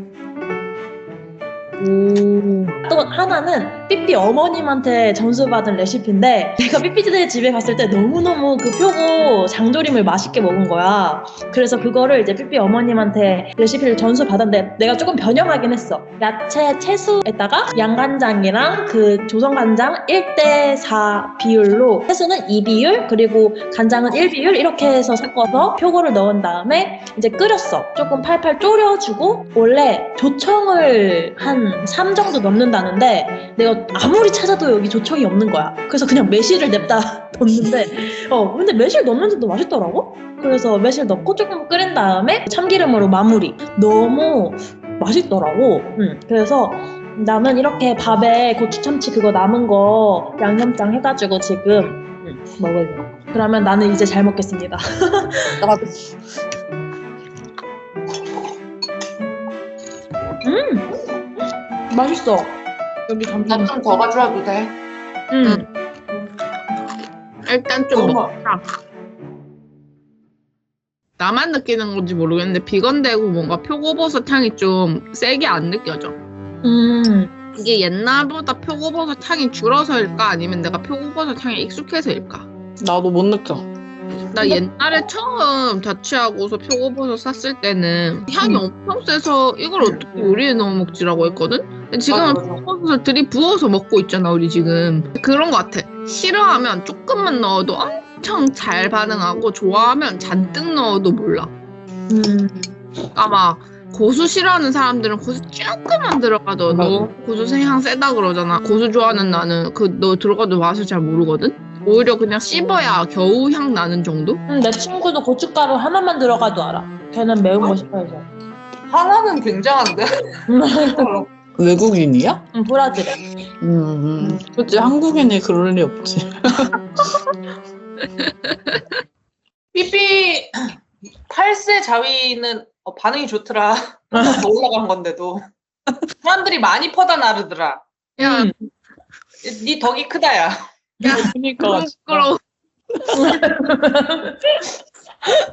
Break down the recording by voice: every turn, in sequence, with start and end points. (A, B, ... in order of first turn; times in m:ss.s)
0:01.8-0:55.6 A
0:55.6-0:56.0 B
1:00.4-1:00.9 A
1:01.9-1:03.7 A
1:03.5-1:04.7 C
1:05.3-1:05.6 A
1:07.5-1:08.6 D
1:07.9-1:08.2 C
1:11.2-1:16.2 D
1:16.6-1:17.3 A
1:17.6-1:22.5 D
1:22.8-1:23.7 B
1:24.3-1:41.5 D
1:32.1-1:32.6 C
1:42.1-1:42.7 A
1:43.1-1:54.4 D
1:46.7-1:47.1 A
1:54.5-1:58.3 A
1:58.9-2:01.3 C
2:00.5-2:01.1 A
2:01.6-2:02.4 B
2:02.5-2:03.2 A
2:03.6-2:06.8 B
2:08.2-2:08.8 D
2:09.7-2:10.6 C
2:11.3-2:15.5 C
2:16.2-2:17.8 C
2:18.2-2:18.5 D
2:18.2-2:18.5 A
2:19.4-2:20.6 C
2:21.0-2:22.4 D
2:21.1-2:22.3 B
2:23.1-2:24.4 A